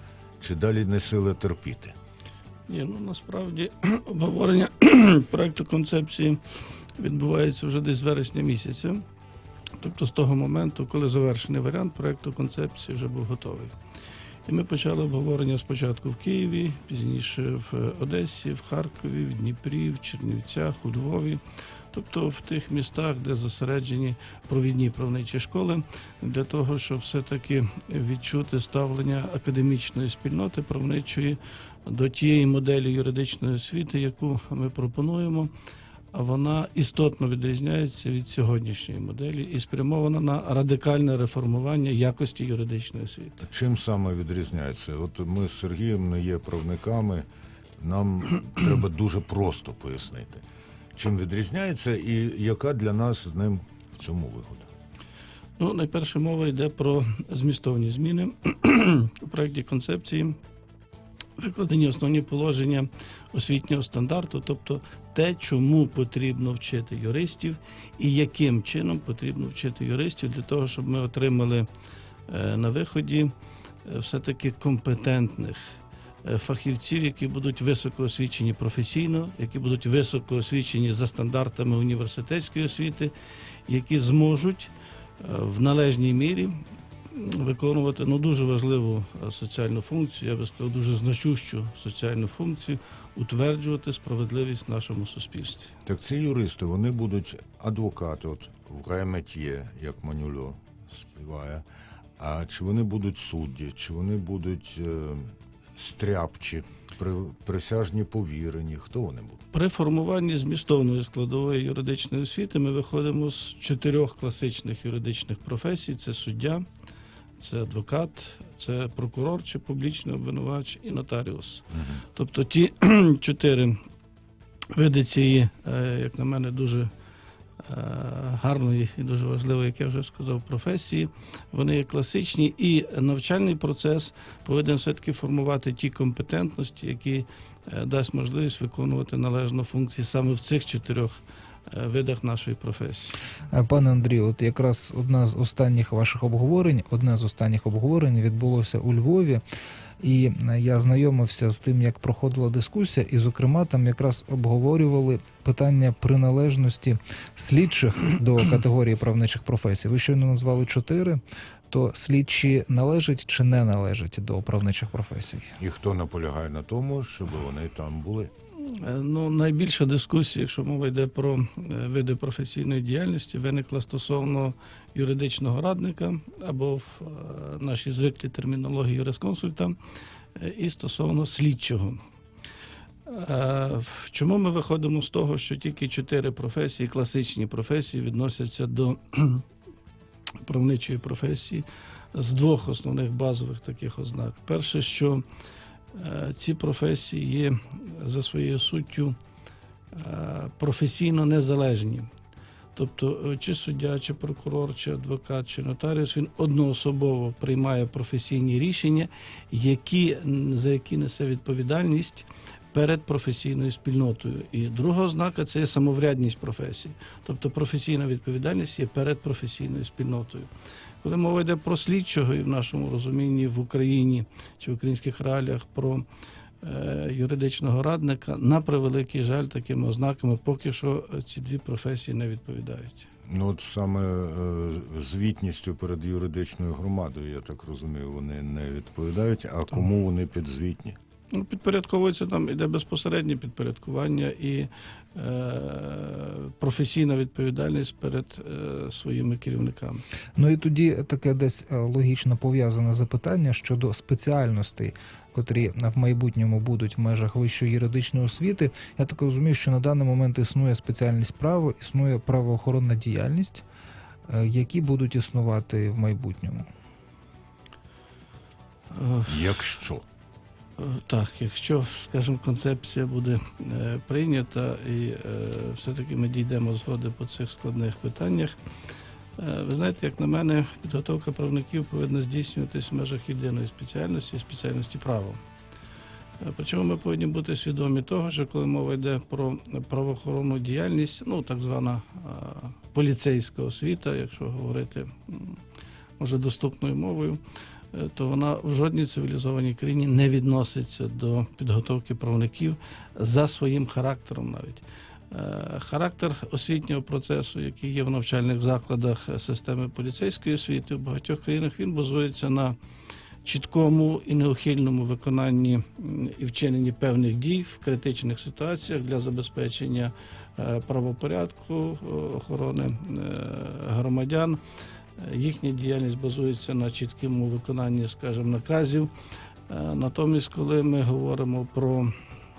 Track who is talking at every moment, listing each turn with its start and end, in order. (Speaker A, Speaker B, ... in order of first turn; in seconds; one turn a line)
Speaker A: 0.4-1.9
Speaker B: 2.7-9.0
Speaker B: 9.8-13.7
Speaker B: 14.5-21.4
Speaker B: 21.9-35.5
Speaker B: 36.1-43.4
Speaker A: 43.4-47.3
Speaker A: 47.8-50.4
Speaker A: 51.0-54.7
Speaker B: 55.6-60.4
Speaker B: 61.4-71.7
Speaker B: 72.3-73.3
Speaker B: 73.8-75.7
Speaker B: 76.2-83.1
Speaker B: 83.7-95.7
Speaker A: 95.9-101.7
Speaker A: 102.2-109.4
Speaker B: 109.5-116.7
Speaker B: 117.4-123.8
Speaker A: 121.7-122.0
Speaker B: 124.7-126.9
Speaker B: 127.6-143.2
Speaker C: 143.5-149.4
Speaker C: 150.0-165.5
Speaker A: 165.6-168.3
Speaker B: 168.7-179.8
Speaker B: 180.4-182.0
Speaker B: 183.1-189.4
Speaker B: 190.4-195.2
Speaker B: 195.9-199.2
Speaker B: 199.9-202.1
Speaker B: 202.8-220.5
Speaker B: 221.0-226.1
Speaker B: 226.6-233.1
Speaker A: 233.3-241.0
Speaker B: 241.3-250.0
Speaker C: 250.4-263.6
Speaker C: 264.3-266.7
Speaker B: 268.9-269.6
Speaker A: 269.3-270.0
Speaker B: 270.8-278.6
Speaker B: 279.4-285.4
Speaker B: 286.4-295.6
Speaker B: 296.2-297.4
Speaker B: 297.9-312.8
Speaker B: 313.4-324.6
Speaker B: 325.2-329.1
Speaker B: 329.7-332.1